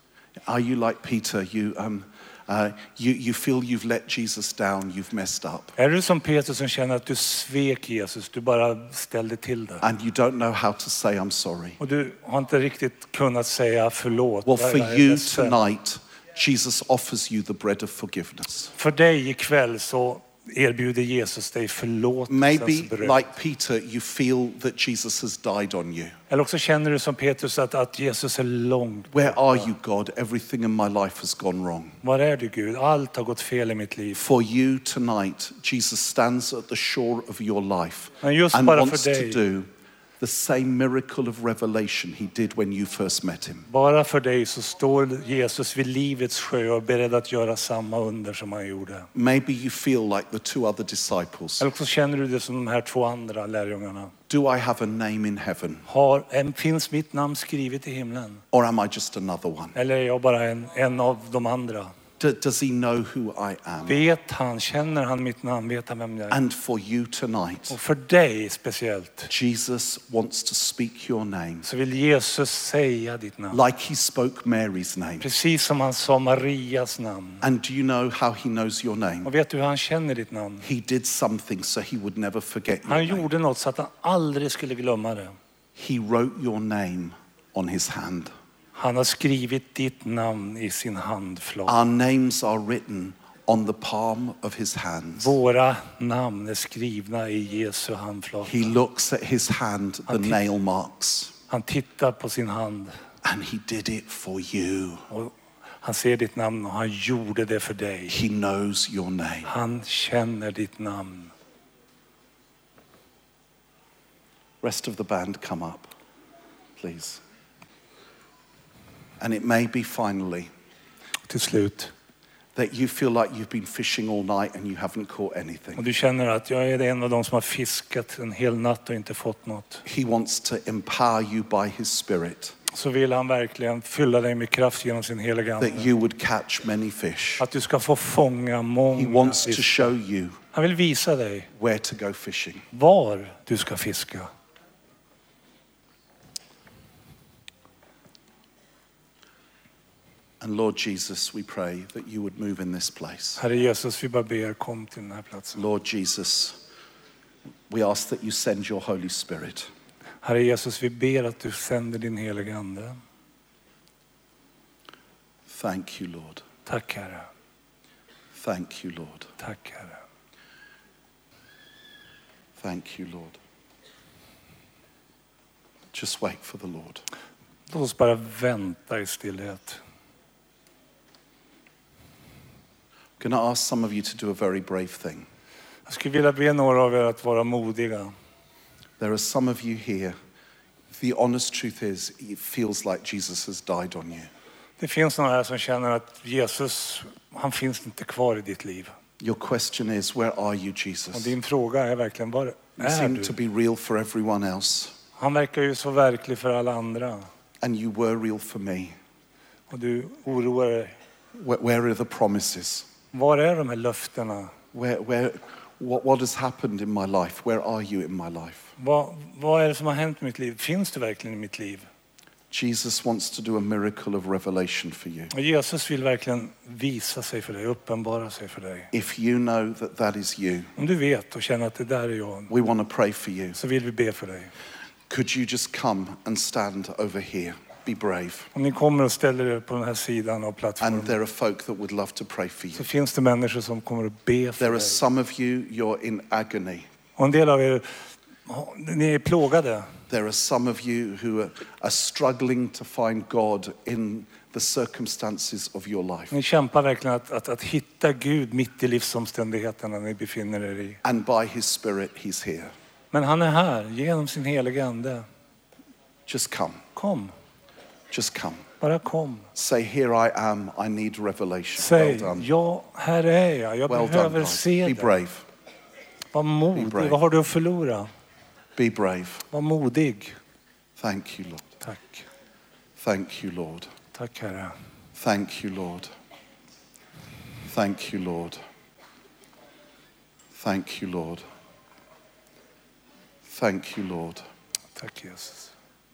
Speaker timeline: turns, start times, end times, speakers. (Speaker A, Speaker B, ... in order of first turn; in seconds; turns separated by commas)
Speaker A: 0.5-5.8, Speaker B: 5.8-9.8, Speaker A: 9.8-11.8, Speaker B: 11.8-15.6, Speaker A: 14.4-18.7, Speaker B: 18.8-23.2, Speaker A: 22.3-26.1, Speaker B: 26.3-29.7, Speaker A: 29.1-32.0, Speaker B: 32.0-34.2, Speaker A: 34.1-39.7, Speaker B: 38.2-39.4, Speaker A: 40.2-43.7, Speaker B: 43.7-49.1, Speaker A: 49.1-51.6, Speaker B: 51.6-54.1, Speaker A: 54.3-55.9, Speaker B: 55.9-58.4, Speaker A: 58.5-59.8, Speaker B: 59.7-61.9, Speaker A: 62.2-64.0, Speaker B: 63.9-66.4, Speaker A: 66.3-67.8, Speaker B: 67.7-69.3, Speaker A: 69.3-71.7, Speaker B: 71.6-73.6, Speaker A: 73.5-75.2, Speaker B: 75.2-77.4, Speaker A: 77.4-79.3, Speaker B: 79.2-80.7, Speaker A: 80.6-83.3, Speaker B: 82.9-85.4, Speaker A: 85.8-88.3, Speaker B: 88.7-91.8, Speaker A: 91.7-95.4, Speaker B: 95.2-98.8, Speaker A: 98.4-101.3, Speaker B: 100.1-100.4, Speaker B: 101.5-102.9, Speaker A: 103.2-105.0, Speaker B: 105.1-108.2, Speaker A: 108.1-109.5, Speaker B: 109.4-111.3, Speaker A: 114.6-115.9, Speaker A: 116.8-117.2, Speaker A: 119.2-120.5, Speaker B: 121.3-121.9, Speaker A: 122.5-125.8, Speaker B: 125.8-129.8, Speaker A: 129.8-132.6, Speaker B: 132.7-135.9, Speaker A: 135.6-137.4, Speaker B: 137.4-139.9, Speaker A: 138.9-140.4, Speaker B: 140.5-141.5, Speaker A: 141.6-142.7, Speaker B: 142.7-144.3, Speaker A: 150.4-153.4, Speaker B: 153.4-155.6, Speaker A: 155.5-156.5, Speaker A: 157.7-159.7, Speaker B: 160.2-162.9, Speaker A: 165.5-166.4, Speaker B: 166.7-167.3, Speaker A: 168.4-169.3, Speaker B: 169.4-170.0, Speaker A: 172.6-173.4, Speaker A: 175.9-177.0, Speaker B: 177.7-179.8, Speaker A: 183.2-185.2, Speaker B: 185.9-188.1, Speaker A: 189.0-190.2, Speaker A: 190.9-194.3, Speaker B: 194.8-198.9, Speaker A: 199.2-201.4, Speaker B: 201.1-203.3, Speaker A: 202.8-204.9, Speaker B: 205.2-207.3, Speaker A: 207.6-208.9, Speaker B: 209.7-210.9, Speaker A: 211.4-212.9, Speaker B: 213.1-214.5, Speaker A: 214.7-218.7, Speaker B: 218.8-221.9, Speaker A: 222.5-225.3, Speaker B: 225.3-228.9, Speaker A: 228.9-230.7, Speaker B: 230.8-232.5, Speaker A: 232.5-233.6, Speaker B: 233.6-234.5, Speaker A: 235.1-238.5, Speaker B: 238.5-241.2, Speaker A: 240.8-242.8, Speaker B: 242.8-245.0, Speaker A: 244.6-246.9, Speaker B: 247.2-247.9, Speaker B: 248.4-249.9, Speaker A: 250.1-256.3, Speaker B: 256.3-261.0, Speaker A: 261.0-262.7, Speaker B: 263.1-265.2, Speaker A: 266.3-266.8, Speaker B: 266.9-267.3, Speaker A: 268.1-268.6, Speaker B: 268.8-269.4, Speaker A: 269.5-272.5, Speaker B: 271.8-275.1, Speaker A: 273.9-275.4, Speaker B: 276.3-278.1, Speaker A: 276.7-277.2, Speaker A: 278.8-279.4, Speaker B: 279.5-280.4, Speaker A: 281.0-281.7, Speaker B: 281.8-282.2, Speaker A: 283.0-283.9, Speaker B: 284.1-284.7, Speaker A: 285.1-286.1, Speaker A: 287.7-288.6, Speaker A: 290.6-291.4, Speaker A: 293.5-294.4, Speaker B: 294.9-295.7